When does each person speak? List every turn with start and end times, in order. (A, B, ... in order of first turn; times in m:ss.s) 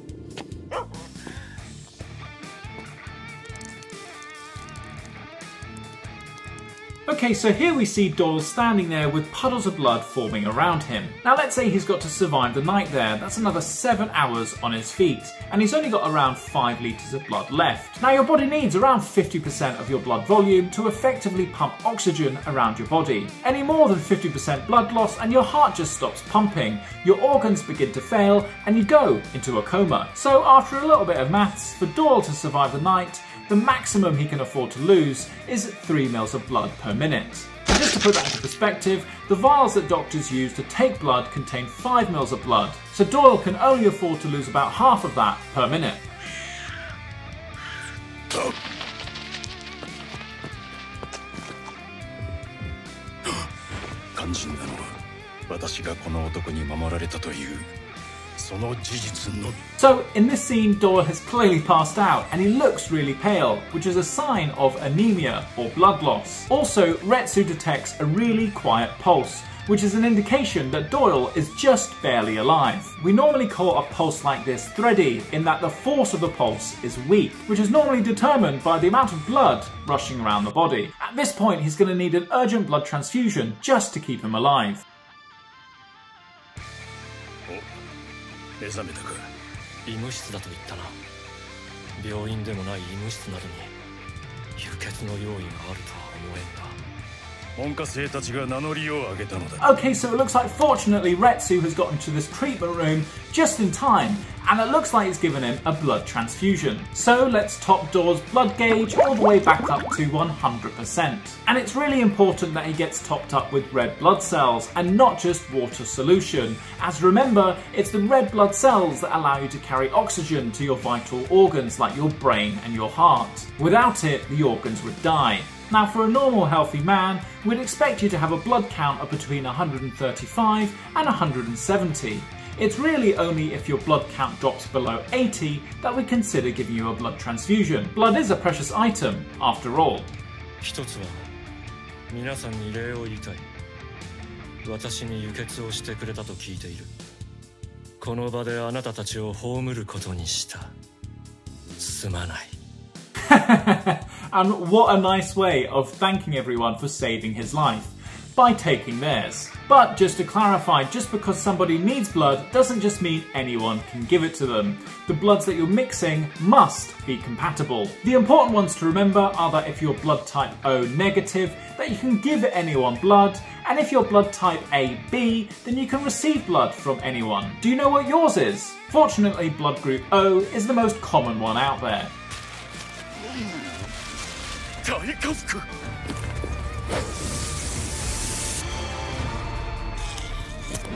0:07.1-0:46.0 A
0:54.2-0:55.0 B
0:55.5-0:57.7 B
0:58.4-0:59.6 B
0:59.8-1:24.8 A
1:28.6-1:29.3 B
1:29.9-1:31.0 C
1:32.0-1:33.7 C
1:34.6-1:36.8 C
1:37.6-1:39.6 B
1:39.6-2:20.1 A
2:20.6-2:21.3 C
2:22.1-2:23.5 C
2:24.6-2:26.9 C
2:28.0-2:30.7 C
2:31.8-2:32.6 C
2:33.3-3:02.1 A
3:04.8-3:05.6 B